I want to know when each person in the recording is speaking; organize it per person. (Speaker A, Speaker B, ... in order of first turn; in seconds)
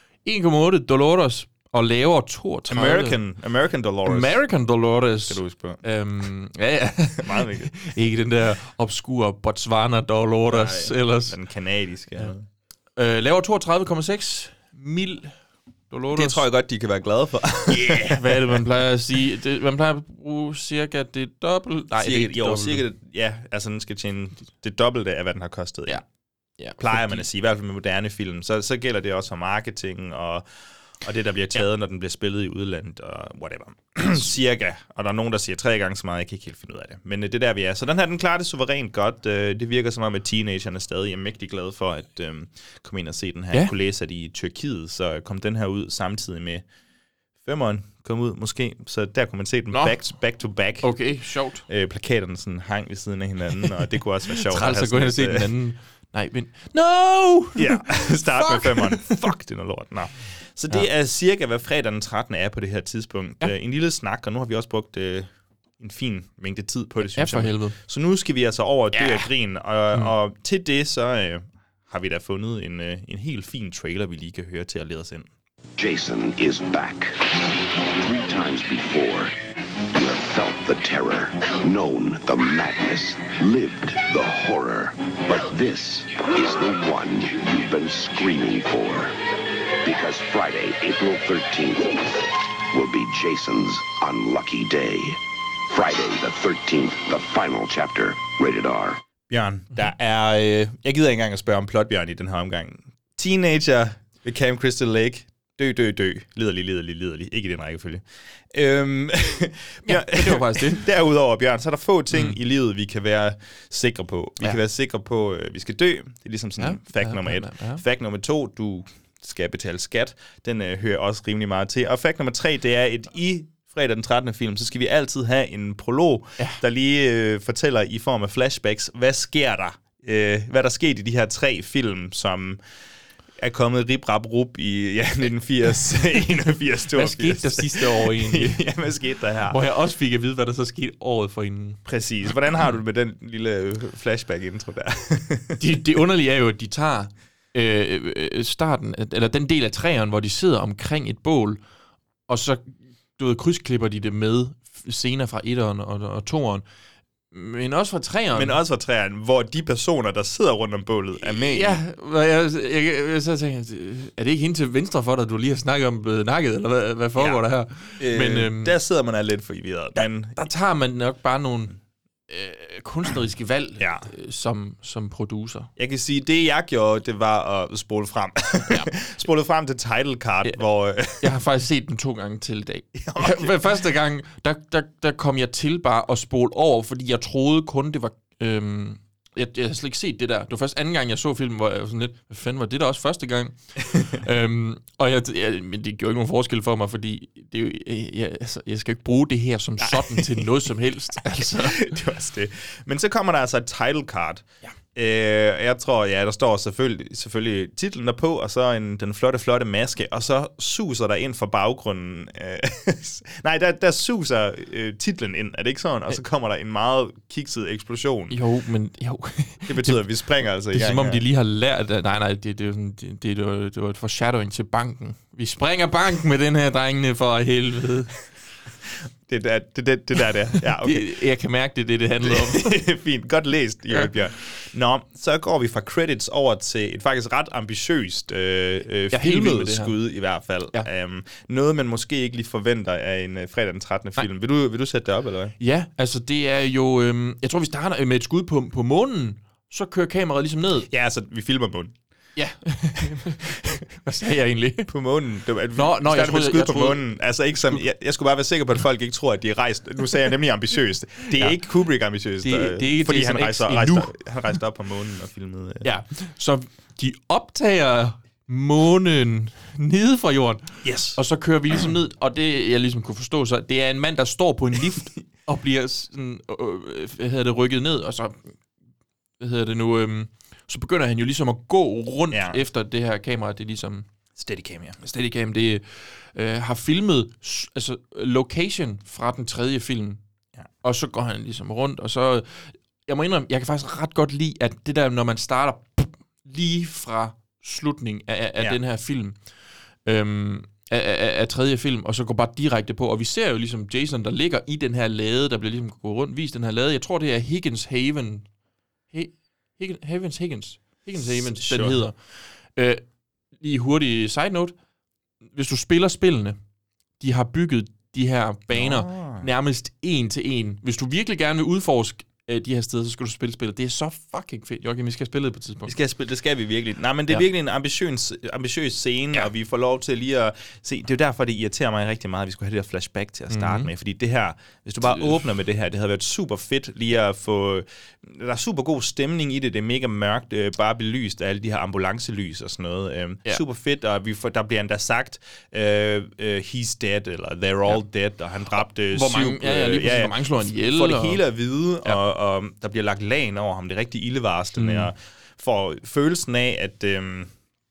Speaker A: 0.2-3.2, 4.1-11.4, 13.0-15.4, 15.9-16.4, 17.7-22.8, 26.6-27.2, 49.7-50.0, 50.8-51.6, 54.4-59.2, 67.1-67.8, 68.9-69.3, 109.8-110.9, 116.6-117.8, 136.9-138.6, 139.5-141.8, 145.6-151.6, 152.3-156.6, 157.3-158.6, 161.2-168.7, 170.0-171.8, 172.3-175.7, 181.2-202.0, 218.3-220.0, 220.7-228.2, 230.8-232.8, 239.1-239.9, 245.6-250.9, 252.4-254.9, 255.7-257.0, 261.3-261.6, 262.4-264.1, 265.8-278.4, 279.4-284.1, 285.0-290.2, 290.8-299.4, 300.1-308.5, 309.1-312.2, 312.7-313.0, 313.6-314.7, 315.5-316.6, 317.2-325.9, 333.5-333.9, 349.1-351.4, 354.8-355.1
Speaker B: 2.7-4.4, 5.3-5.8, 7.2-7.9, 10.5-12.4, 16.1-18.6, 21.9-26.0, 26.8-30.4, 31.0-46.6, 47.4-51.0, 51.6-55.5, 57.6-75.3, 99.3-132.6, 133.4-139.6, 141.8-145.7, 158.3-161.8, 167.2-167.4, 168.0-170.4, 173.8-174.1, 175.8-181.3, 182.9-183.6, 199.8-200.7, 201.3-218.4, 219.7-221.2, 229.3-231.1, 232.2-245.6, 250.9-251.9, 253.1-253.5, 254.9-265.9, 270.8-271.2, 282.3-282.6, 284.4-285.0, 311.2-312.0, 318.7-319.5, 325.9-357.5
Speaker C: 75.8-79.4, 79.9-89.2, 89.8-99.0